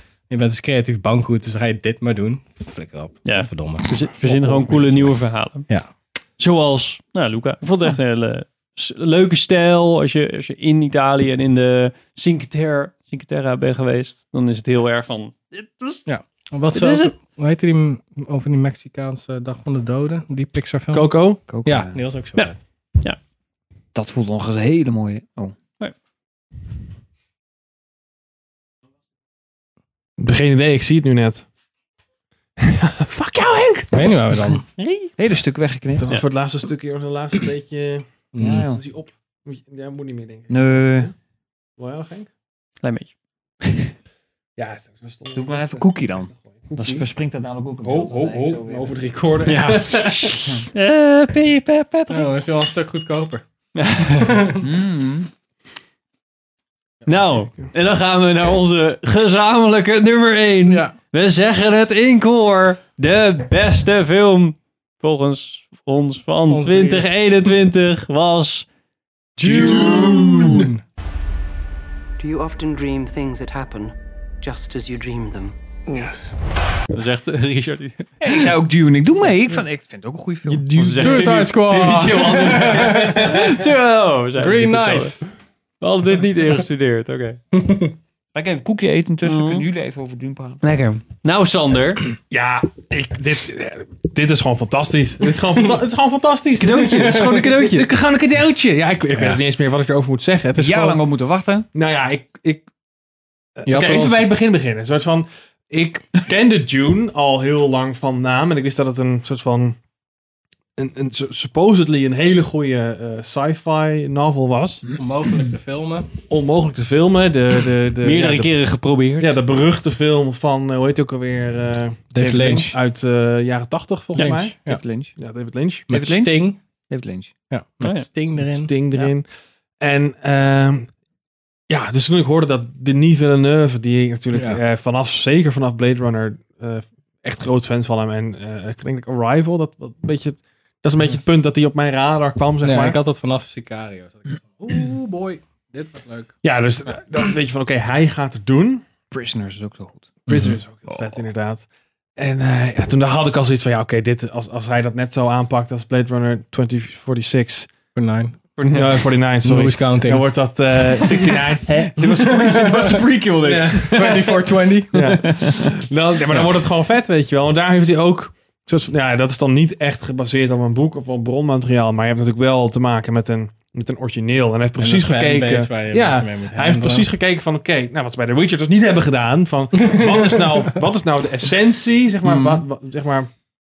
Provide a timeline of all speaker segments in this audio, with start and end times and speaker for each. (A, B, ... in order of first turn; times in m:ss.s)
0:00.3-0:05.2 A
0:03.2-0:05.7 B
0:06.4-0:16.0 B
0:16.0-0:22.6 A
0:16.7-0:17.1 B
0:20.9-0:21.4 C
0:21.5-0:22.0 D
0:23.9-0:25.5 D
0:30.2-0:31.4 C
0:32.6-0:34.0 C
0:33.9-0:34.6 A
0:34.8-0:35.1 B
0:35.2-0:36.0 D
0:36.0-0:41.1 C
0:38.3-0:38.7 A
0:38.4-0:38.8 D
0:40.5-0:41.1 D
0:41.8-0:42.3 C
0:42.8-0:43.1 B
0:44.6-0:47.0 C
0:45.4-0:49.0 D
0:47.8-0:50.4 C
0:49.4-0:52.3 B
0:52.1-0:53.4 A
0:53.7-0:54.5 B
0:54.0-0:54.6 A
0:54.6-0:55.3 D
0:57.0-1:08.6 B
1:00.6-1:00.9 A
1:06.5-1:07.1 A
1:09.4-1:10.8 A
1:09.4-1:10.6 C
1:12.2-1:15.5 E
1:16.9-1:18.1 B
1:18.2-1:21.0 D
1:20.5-1:21.4 C
1:20.7-1:25.2 B
1:21.0-1:23.7 A
1:24.4-1:25.1 A
1:25.8-1:27.4 B
1:27.6-1:27.9 A
1:28.4-1:30.6 D
1:29.2-1:29.6 B
1:30.6-1:32.1 B
1:32.3-1:41.0 C
1:36.5-1:37.9 B
1:37.2-1:37.4 A
1:39.1-1:39.4 A
1:40.5-1:41.7 D
1:41.7-1:42.6 C
1:43.6-1:49.8 C
1:43.6-1:44.3 A
1:50.8-1:54.9 C
1:55.0-1:56.1 A
1:56.3-1:58.5 C
1:58.0-1:59.4 B
1:59.2-2:04.5 C
2:02.1-2:02.8 A
2:02.2-2:02.7 D
2:04.2-2:04.8 A
2:04.7-2:05.2 D
2:05.2-2:05.9 C
2:05.9-2:06.6 A
2:05.9-2:07.3 D
2:07.5-2:08.7 A
2:07.8-2:08.0 B
2:08.4-2:09.2 C
2:09.8-2:10.9 C
2:11.7-2:23.0 C
2:14.3-2:14.6 A
2:22.6-2:26.3 A
2:26.4-2:28.8 C
2:29.1-2:30.1 D
2:30.3-2:37.7 C
2:30.3-2:30.6 A
2:37.9-2:38.4 A
2:38.6-2:39.0 B
2:38.7-3:03.3 C
2:39.4-2:41.2 A
2:42.0-2:45.4 A
2:54.8-2:57.1 A
2:59.8-3:00.8 A